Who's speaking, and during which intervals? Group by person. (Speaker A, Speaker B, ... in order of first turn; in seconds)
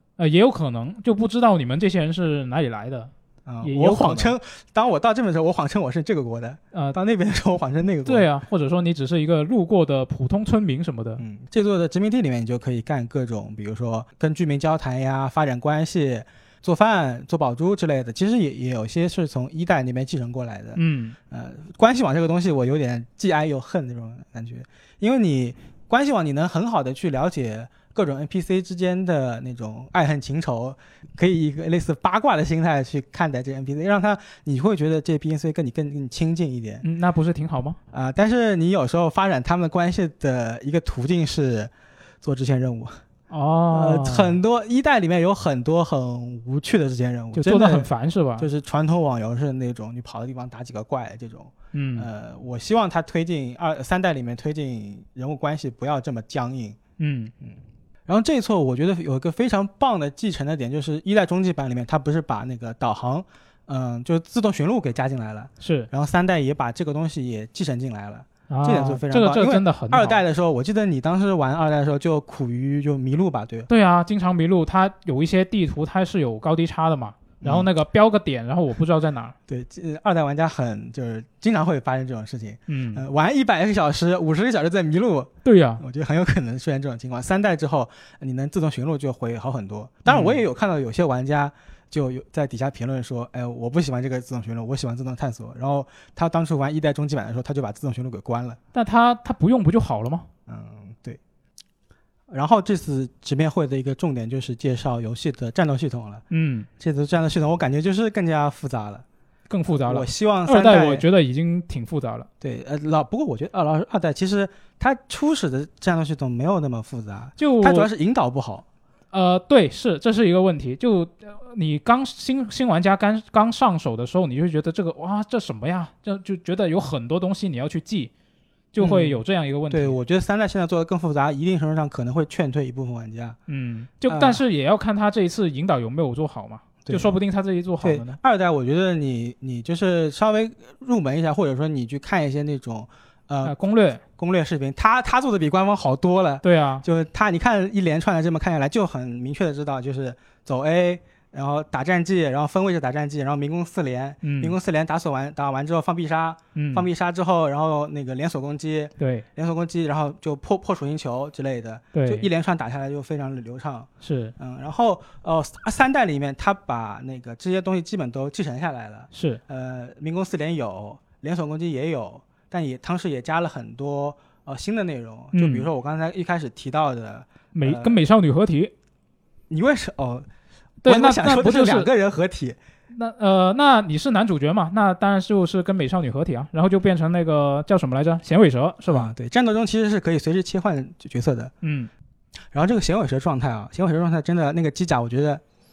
Speaker A: 0.2-4.3, 8.1-11.2, 20.8-21.2, 36.8-37.8, 43.3-44.4, 47.3-48.5, 51.7-52.1, 57.0-57.3, 65.6-65.9, 68.5-70.2, 73.7-79.3, 82.7-83.0, 85.5-85.8, 90.1-90.4, 98.7-100.3, 106.3-106.7, 109.5-112.3, 117.4-117.9, 119.1-128.1, 128.7-130.0, 133.5-138.2, 143.4-144.0, 146.4-146.8, 154.2-154.6, 156.6-156.9, 159.0-159.3, 161.9-162.3, 164.0-164.3, 169.1-169.4, 175.3-175.7, 177.5-178.7, 180.8-181.9, 182.9-189.1, 191.6-191.9
Speaker B: 3.5-8.3, 11.2-36.8, 37.9-41.7, 42.2-43.0, 43.7-56.8, 58.1-73.7, 77.4-77.7, 79.5-98.6, 100.5-101.2, 102.3-106.2, 106.8-109.0, 109.7-111.1, 112.4-118.7, 128.8-133.4, 134.1-134.4, 136.8-137.2, 137.8-143.6, 144.2-178.0, 179.5-180.3, 180.8-182.6, 188.9-191.5, 192.5-195.4